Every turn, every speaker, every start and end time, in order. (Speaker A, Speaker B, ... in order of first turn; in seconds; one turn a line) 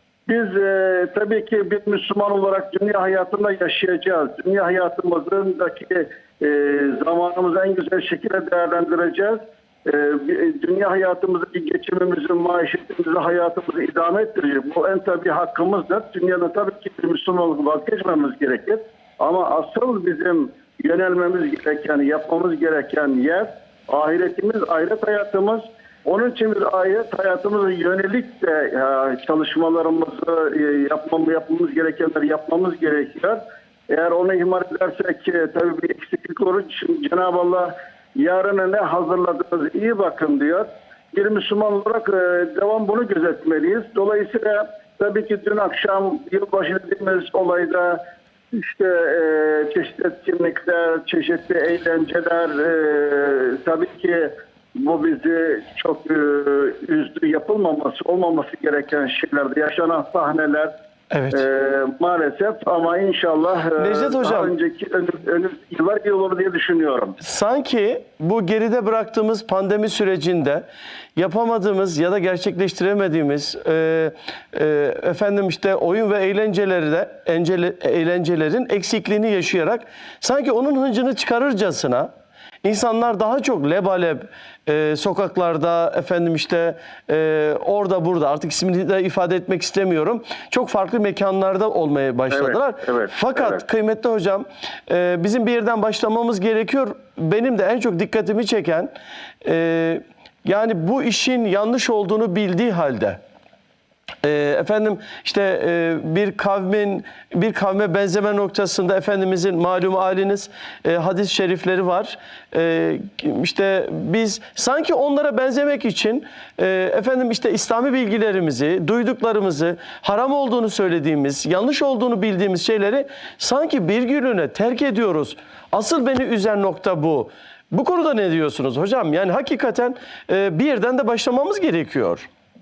Speaker A: 0.3-60.7
Speaker B: 61.1-61.4
Speaker A: 61.3-67.2
Speaker B: 63.8-64.5
Speaker B: 67.2-82.1
Speaker B: 82.6-98.9
Speaker A: 92.3-93.6
Speaker B: 99.4-103.2
Speaker B: 104.2-132.3